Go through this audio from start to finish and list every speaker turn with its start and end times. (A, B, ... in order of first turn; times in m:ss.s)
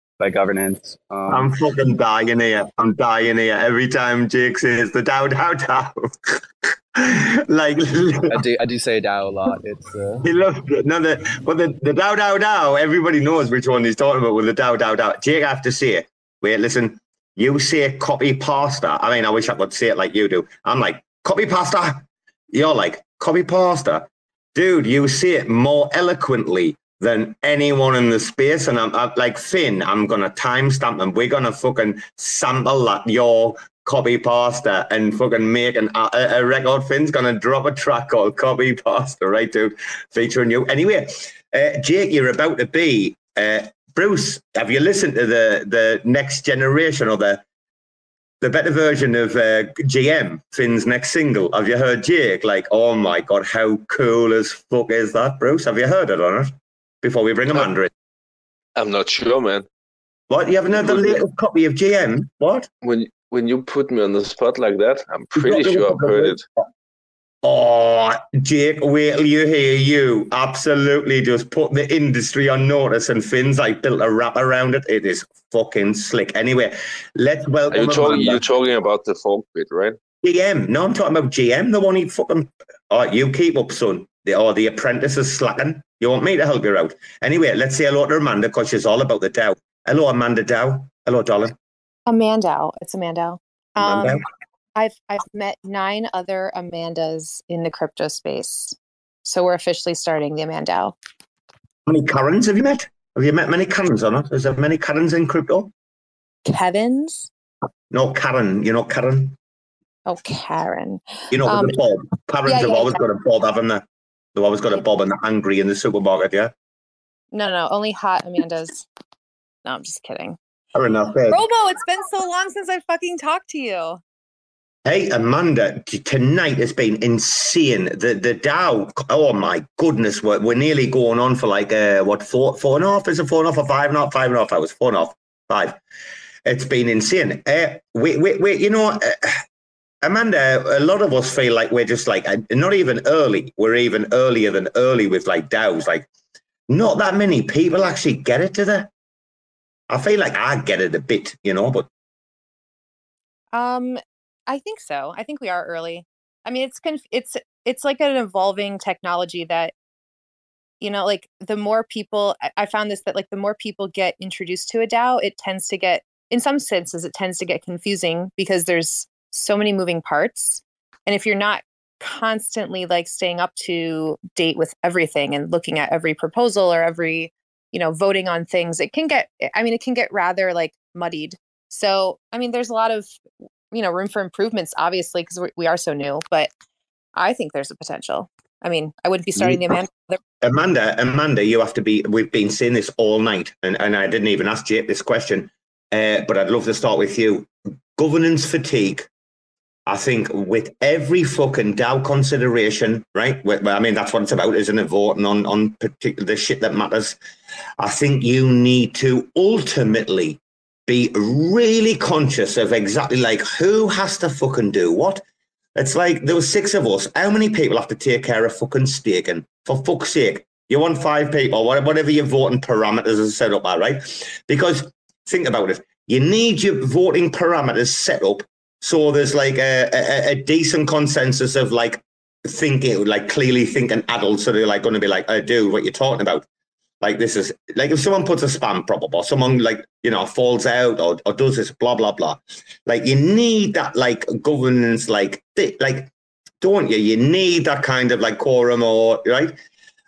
0:00.2-0:01.5 A
0:01.3-0:08.4 B
0:08.3-0:10.3 A
0:10.2-0:47.4 B
0:48.4-0:57.9 B
0:58.8-0:59.7 C
1:00.3-1:02.7 B
1:00.7-1:01.2 C
1:02.8-1:06.4 C
1:05.4-1:06.4 B
1:07.4-1:18.4 B
1:17.7-1:20.0 C
1:20.2-1:31.6 B
1:32.1-1:34.2 D
1:33.8-1:34.2 B
1:34.8-1:41.0 D
1:41.9-1:45.7 B
1:46.5-1:47.3 D
1:47.9-1:49.4 B
1:50.1-1:51.8 D
1:51.3-1:56.5 B
1:52.5-1:53.0 D
1:57.3-1:58.8 D
1:59.6-2:00.4 D
2:00.8-2:01.4 B
2:01.3-2:04.0 D
2:04.8-2:15.8 B
2:16.4-2:19.4 B
2:20.0-2:26.1 B
2:26.7-2:28.9 B
2:29.9-2:31.9 B
2:33.5-2:39.7 D
2:40.8-3:03.1 D
3:03.7-3:06.5 D
3:07.2-3:10.2 D
3:10.4-3:19.1 B
3:19.9-3:27.2 B
3:27.8-3:35.2 B
3:35.8-3:56.5 B
3:57.0-4:09.6 B